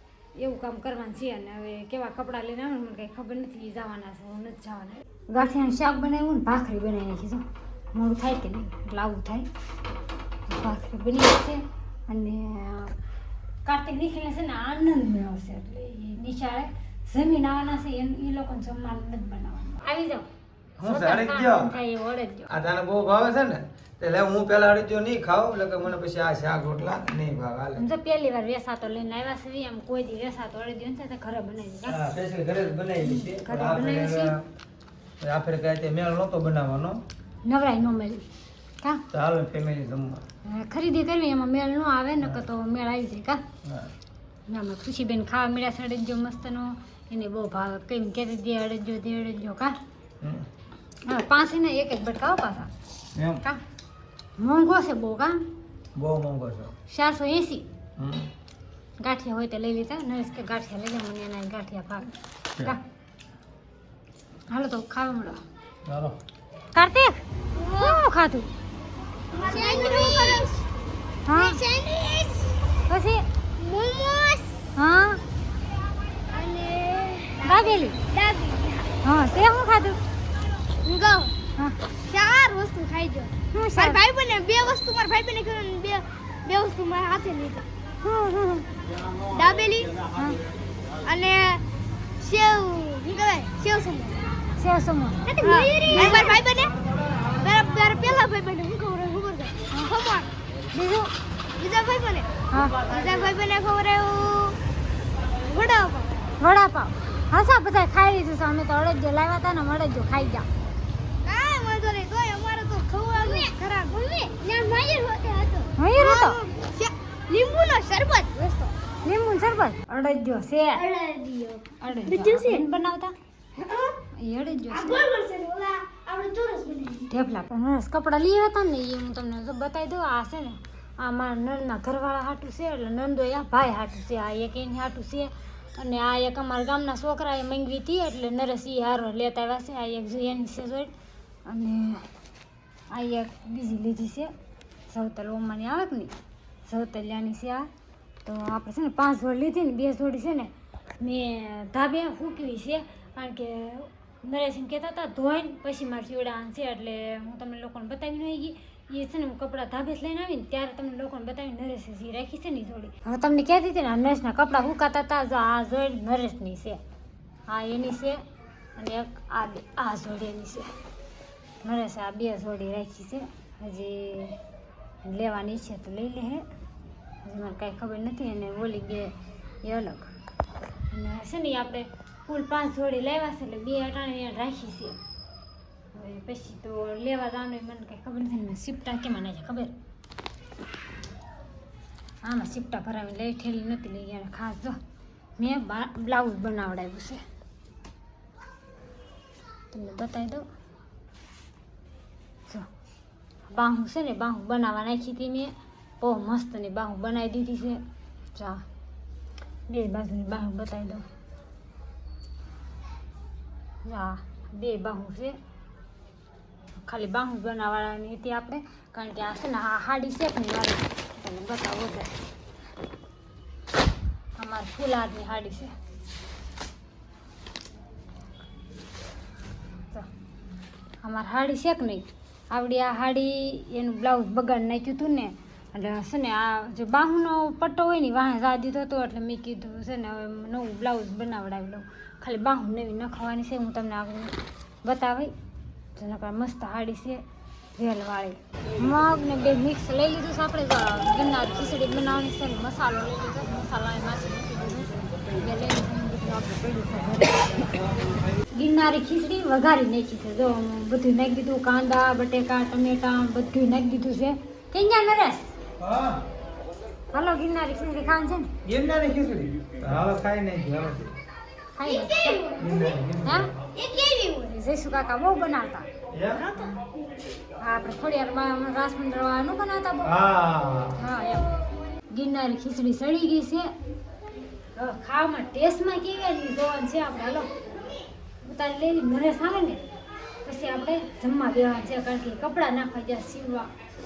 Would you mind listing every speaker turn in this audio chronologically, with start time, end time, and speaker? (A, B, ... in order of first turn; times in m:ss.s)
0:00.4-0:09.5 A
0:10.5-0:12.9 A
0:13.6-0:20.3 A
0:20.8-0:21.8 B
0:20.8-0:22.5 A
0:22.5-0:27.8 B
0:27.8-0:32.0 A
0:31.9-0:34.5 B
0:33.0-0:34.3 A
0:35.2-0:37.0 B
0:37.4-0:38.2 A
0:39.1-0:40.2 B
0:40.4-0:43.4 A
0:43.6-0:43.9 B
0:44.5-0:49.8 A
0:50.2-0:50.5 B
0:51.0-0:52.7 A
0:53.1-0:53.4 B
0:54.4-0:55.4 A
0:55.9-0:56.7 B
0:56.9-0:57.6 A
0:58.0-0:58.3 B
0:59.0-1:02.8 A
1:04.5-1:05.4 A
1:05.8-1:06.2 B
1:06.7-1:08.5 A
1:07.5-1:08.0 C
1:09.3-1:10.6 C
1:09.5-1:10.4 A
1:11.2-1:11.6 A
1:11.3-1:12.7 C
1:12.9-1:13.2 A
1:13.6-1:14.6 C
1:14.8-1:15.2 A
1:16.3-1:18.9 C
1:17.4-1:18.0 A
1:19.0-1:20.0 A
1:20.8-1:21.3 C
1:22.1-1:27.6 C
1:23.5-1:24.0 A
1:28.0-1:28.7 A
1:29.3-1:29.9 C
1:30.1-1:30.4 A
1:31.0-1:31.6 C
1:32.2-1:34.2 C
1:34.6-1:36.4 A
1:35.3-1:36.8 C
1:37.3-1:40.3 C
1:40.7-1:41.1 A
1:41.6-1:44.6 C
1:42.5-1:42.8 A
1:45.5-1:46.2 C
1:46.4-1:50.5 A
1:51.2-1:58.7 C
1:55.8-1:56.4 A
1:59.0-2:00.9 A
2:00.7-2:02.6 C
2:01.8-2:03.1 A
2:03.6-2:04.0 C
2:04.2-2:05.0 A
2:04.7-2:07.1 C
2:07.1-2:20.9 A
2:21.4-2:22.1 A
2:22.9-2:24.3 A
2:24.9-2:26.1 A
2:26.6-2:27.7 A
2:28.2-2:46.8 A
2:47.5-2:48.2 A
2:48.8-2:50.7 A
2:51.6-2:54.4 A
2:55.0-2:56.4 A
2:57.2-3:00.1 A
3:00.9-3:05.0 A
3:05.9-3:09.7 A
3:12.2-3:14.8 A
3:15.4-3:17.2 A
3:19.7-3:20.5 A
3:23.5-3:27.8 A
3:28.3-3:28.6 A
3:29.7-3:31.0 A
3:33.8-3:35.4 A
3:36.8-3:42.2 A
3:44.4-3:45.7 A
3:51.0-4:05.3 A
4:06.0-4:07.2 A
4:07.7-4:17.7 A
4:18.5-4:25.5 A
4:25.8-4:26.2 B
4:27.1-4:28.5 A
4:28.6-4:31.1 B
4:31.8-4:32.4 A
4:31.8-4:33.0 C
4:32.6-4:33.5 B
4:33.2-4:33.5 A
4:33.7-4:34.5 C
4:34.4-4:35.8 A
4:36.1-4:36.4 B
4:36.4-4:36.7 C
4:37.6-4:40.1 A
4:40.0-4:41.0 B
4:41.0-4:41.5 A
4:42.1-4:43.7 A
4:44.8-4:47.5 A
4:48.4-4:49.8 A
4:50.4-4:53.7 A